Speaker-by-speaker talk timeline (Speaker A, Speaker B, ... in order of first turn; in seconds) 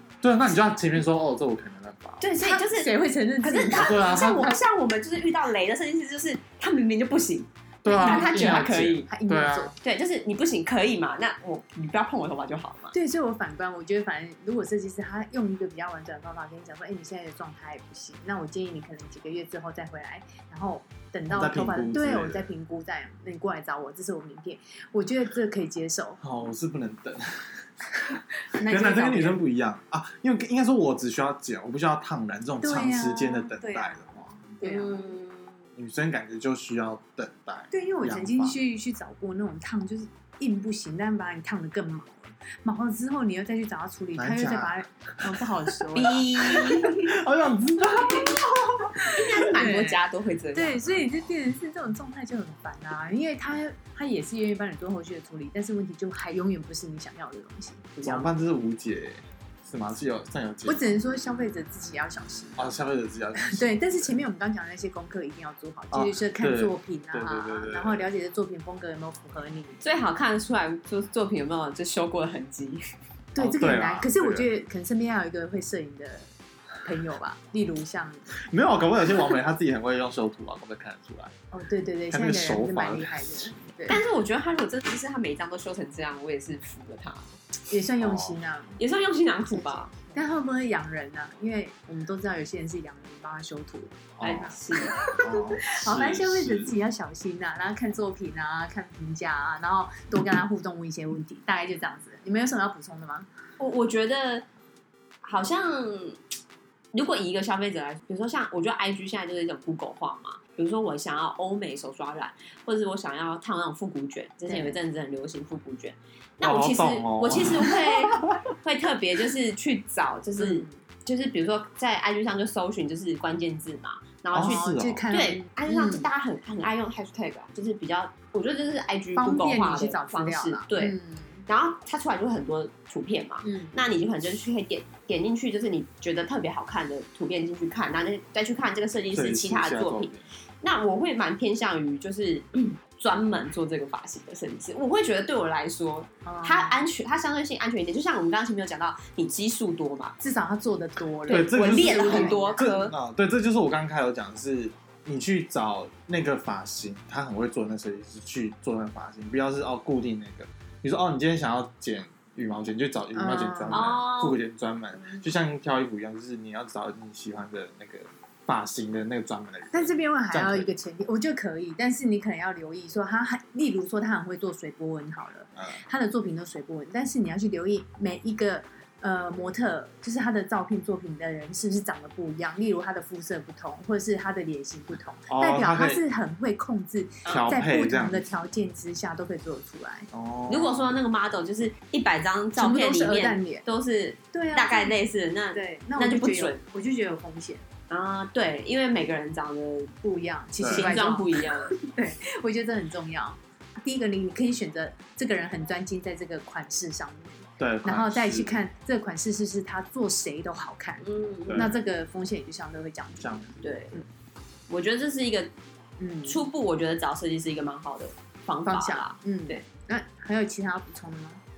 Speaker A: 0.2-2.2, 3.7-4.5, 7.8-9.7, 21.3-22.5, 26.2-34.6, 35.8-38.6, 44.1-49.4, 58.0-61.0, 62.5-64.2, 65.9-68.1, 73.4-74.5, 78.4-81.3, 82.1-83.5, 88.0-88.4, 94.2-94.5, 95.2-96.7, 116.4-118.5, 124.3-125.0, 139.1-140.2, 151.3-170.7, 185.3-186.0, 187.3-188.3, 190.1-190.9, 200.6-200.9, 207.6-208.6, 211.4-211.8, 213.2-213.6
Speaker B: 2.2-9.1, 9.8-12.9, 34.6-35.6, 45.9-47.2, 49.1-50.8, 58.0-58.2, 69.8-72.8, 83.9-87.3, 88.8-90.1, 94.2-95.2, 103.6-104.4, 105.2-106.2, 106.9-131.0, 131.5-150.2, 151.3-152.9, 163.7-164.4, 190.5-196.6, 197.9-199.9, 200.7-201.7, 211.0-211.7, 213.6-214.0, 214.7-215.5, 216.2-219.6
Speaker C: 2.4-4.6, 7.9-9.8, 12.9-26.2, 28.4-29.4, 32.6-35.0, 37.7-46.3, 48.9-50.0, 50.5-58.2, 60.6-62.7, 63.4-69.8, 73.3-76.3, 76.8-78.3, 81.5-84.0, 87.7-88.8, 89.5-103.3, 114.5-114.7, 120.4-120.8, 124.4-126.1, 129.2-131.4, 133.4-133.8, 146.2-146.8, 150.2-152.7, 163.1-164.0, 169.7-190.1, 192.6-193.6, 194.3-195.0, 195.5-197.6, 200.0-214.0, 216.0-216.4, 218.7-221.4